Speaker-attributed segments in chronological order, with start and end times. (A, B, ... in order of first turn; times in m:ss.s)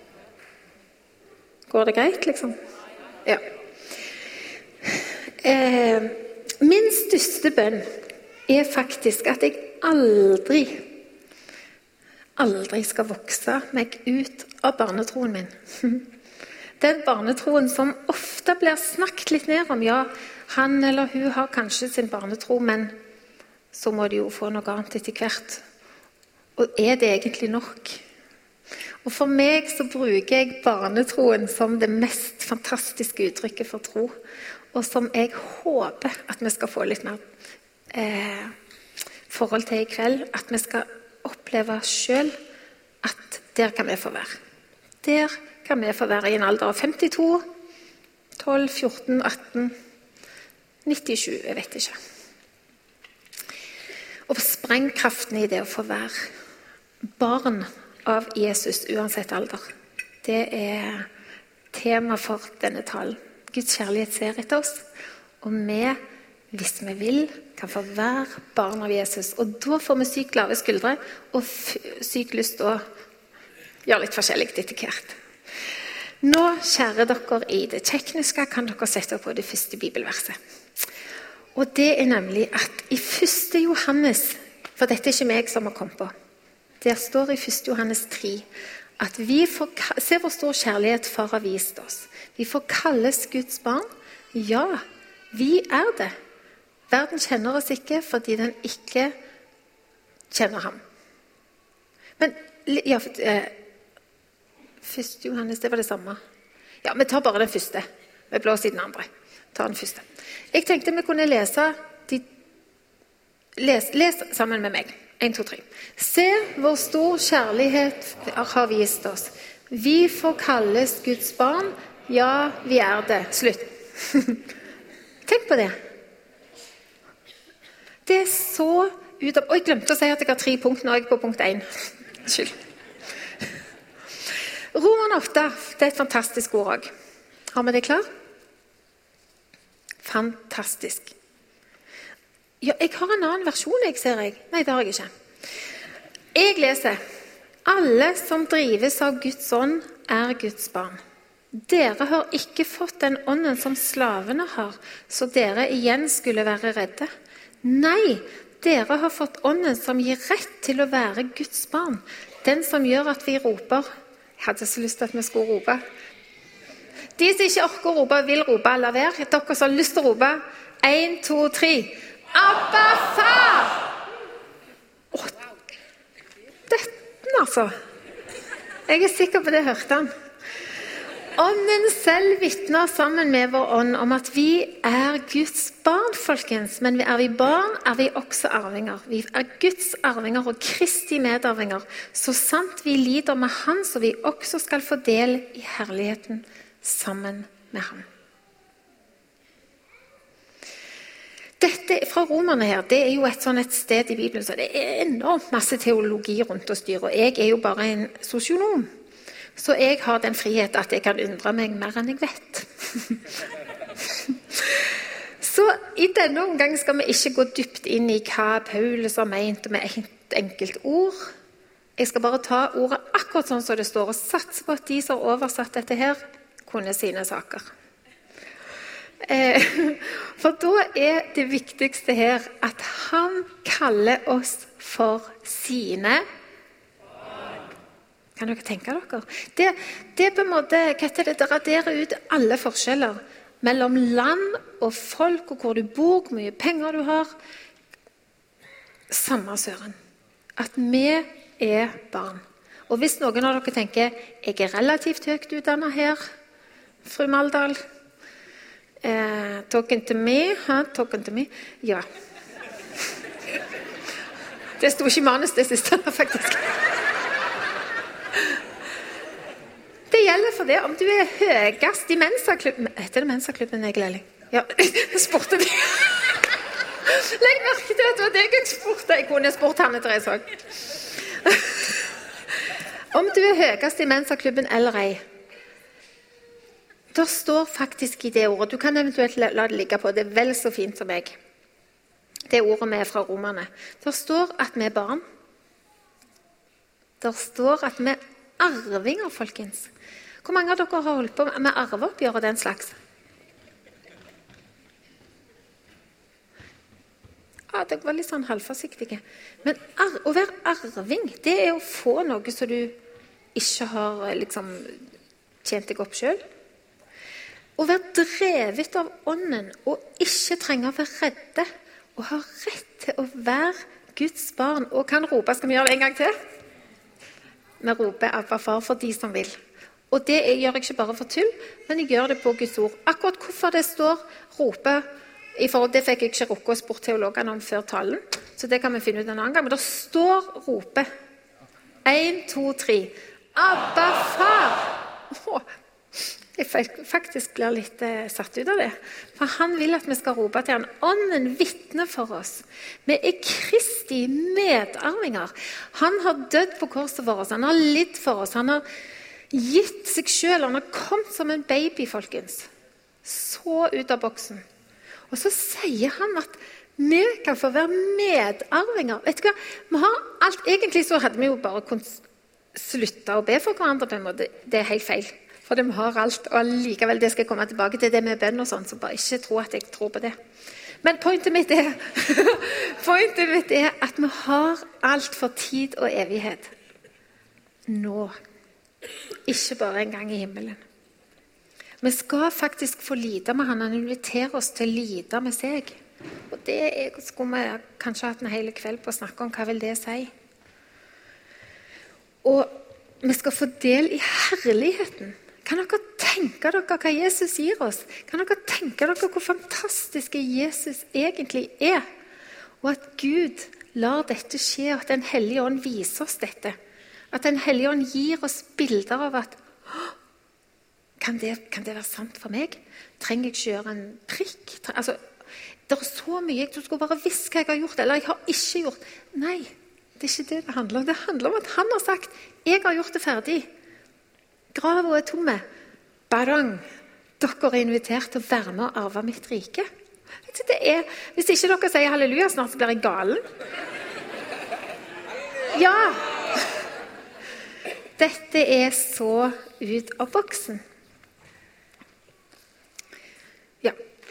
0:01.7-0:02.5 A
0:04.9-0:07.9 A
0:08.5-0:10.9 A
0:12.4-0:16.1 A
0:16.8-0:22.9 A
0:23.7-0:25.6 A
0:26.6-0:28.0 A
0:29.0-0:34.1 A
0:34.7-0:37.2 A
0:37.9-0:38.5 A
0:39.3-0:42.4 A
0:43.0-0:44.4 A
0:45.0-0:47.5 A
0:48.4-0:49.8 A
0:50.9-0:52.0 A
0:54.3-0:56.1 A
0:57.2-0:59.6 A
1:00.2-1:01.1 A
1:01.7-1:04.8 A
1:05.4-1:06.0 A
1:06.5-1:12.8 A
1:13.9-1:15.2 A
1:16.2-1:20.4 A
1:21.5-1:26.1 A
1:26.8-1:28.4 A
1:29.0-1:36.1 A
1:36.9-1:39.1 A
1:40.3-1:40.8 A
1:42.2-1:43.5 A
1:44.8-1:46.2 A
1:46.8-1:52.2 A
1:53.6-2:04.4 A
2:05.3-2:05.8 A
2:08.0-2:12.5 A
2:14.7-2:16.9 A
2:17.5-2:18.0 A
2:20.0-2:21.1 A
2:22.6-2:25.1 A
2:26.4-2:27.0 A
2:27.6-2:31.0 A
2:31.5-2:37.1 A
2:37.6-2:43.9 A
2:44.4-2:45.8 A
2:47.2-2:53.8 A
2:56.7-2:57.7 A
2:58.9-3:00.1 A
3:01.4-3:18.0 A
3:21.6-3:28.9 A
3:29.6-3:33.2 A
3:34.2-3:34.9 A
3:35.4-3:41.2 A
3:42.0-3:47.6 A
3:49.2-3:56.2 A
3:58.4-4:07.3 A
4:09.1-4:10.0 A
4:10.6-4:16.2 A
4:17.0-4:17.8 A
4:19.0-4:22.0 A
4:24.8-4:26.7 A
4:30.1-4:36.4 A
4:37.0-4:40.6 A
4:41.3-4:42.0 A
4:43.1-4:45.2 A
4:47.1-4:51.4 A
4:52.5-4:55.2 A
4:57.2-4:59.9 A
5:00.4-5:02.9 A
5:07.7-5:13.0 A
5:13.5-5:15.0 A
5:15.6-5:16.4 A
5:17.8-5:26.3 A
5:27.8-5:29.6 A
5:30.1-5:35.0 A
5:35.6-5:41.1 A
5:42.0-5:45.7 A
5:46.2-5:58.8 A
5:59.5-6:02.7 A
6:03.2-6:04.6 A
6:05.3-6:12.2 A
6:12.8-6:20.4 A
6:21.0-6:26.7 A
6:27.9-6:28.4 A
6:29.5-6:30.8 A
6:32.0-6:36.0 A
6:36.5-6:40.3 A
6:42.4-6:52.0 A
6:52.8-6:56.8 A
6:57.3-7:00.1 A
7:01.2-7:05.2 A
7:05.9-7:13.7 A
7:14.7-7:15.6 A
7:16.3-7:16.8 A
7:17.4-7:19.9 A
7:20.5-7:23.4 A
7:25.7-7:26.3 A
7:28.2-7:30.8 A